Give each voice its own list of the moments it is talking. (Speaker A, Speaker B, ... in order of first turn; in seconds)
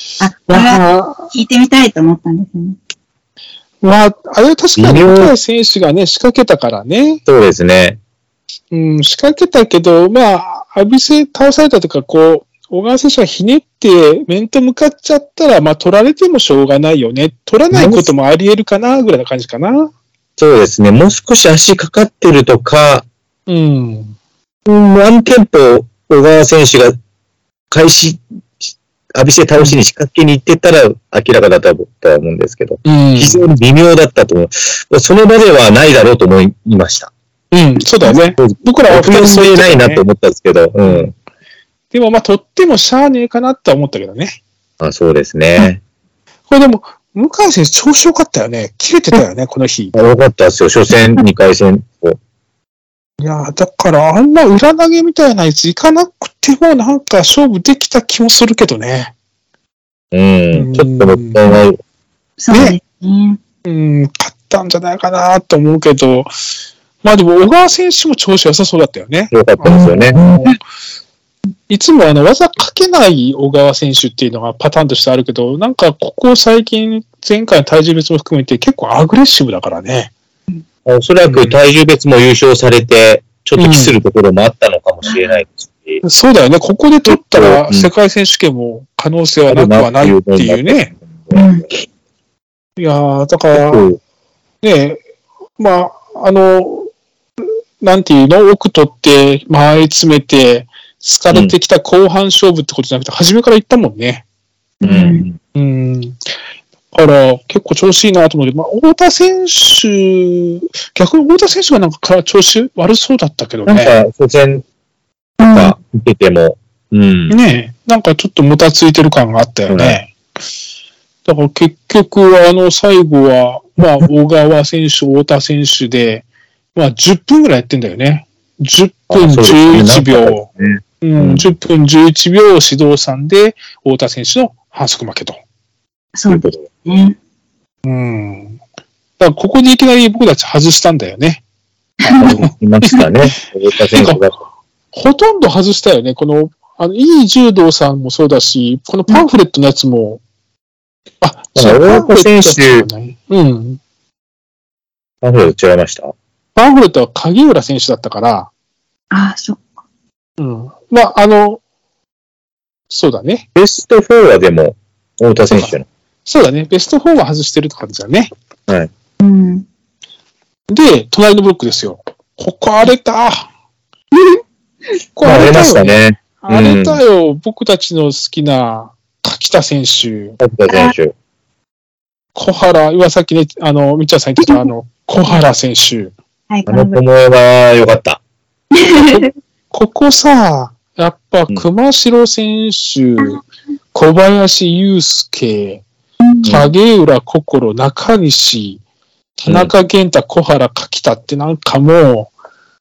Speaker A: 0.2-2.8, 62.4-63.4, 70.2-70.5, 85.0-85.4, 91.3-91.7, 104.8-105.2, 115.4-115.8, 136.1-137.1, 142.0-142.4, 159.1-159.6, 169.2-169.6, 180.7-180.9, 186.5-187.0, 188.7-189.2
Speaker B: 0.5-1.3, 3.8-7.2, 8.7-19.9, 23.5-24.1, 32.8-33.5, 37.5-40.0, 40.8-41.1, 41.9-44.4, 46.5-49.9, 53.2-59.1, 60.5-61.5, 62.5-62.8, 63.6-66.3, 67.0-70.6, 71.7-80.1, 81.2-81.6, 83.5-84.0, 86.0-90.9, 92.8-93.9, 94.6-95.0, 95.6-96.9, 97.8-104.2, 105.5-106.2, 106.9-114.0, 117.3-120.1, 121.2-130.5, 131.0-135.4, 137.8-138.6, 139.2-141.4, 142.0-143.0, 143.9-144.2, 144.9-150.2, 151.2-153.8, 156.5-158.5, 160.4-161.6, 162.9-163.4, 165.5-168.3, 170.7-173.5, 175.2-180.4, 182.3-186.1, 188.9-193.4, 193.9-195.8, 196.4-198.8, 199.4-202.3
Speaker C: 4.8-5.3, 7.2-8.0, 17.7-18.1, 20.4-23.1, 24.6-26.9, 27.7-37.1, 38.4-41.1, 44.8-45.8, 49.9-52.2, 60.1-61.8, 69.3-70.2, 80.8-86.0, 87.0-87.9, 89.5-91.5, 93.5-94.0, 104.8-105.4, 113.7-114.6, 115.5-117.4, 119.7-120.0, 129.1-131.5, 136.3-136.7, 142.2-144.4, 151.6-152.9, 155.2-156.1, 163.5-165.8, 175.2-177.0, 180.4-181.1, 186.7-188.2, 196.4-196.7, 199.5-199.7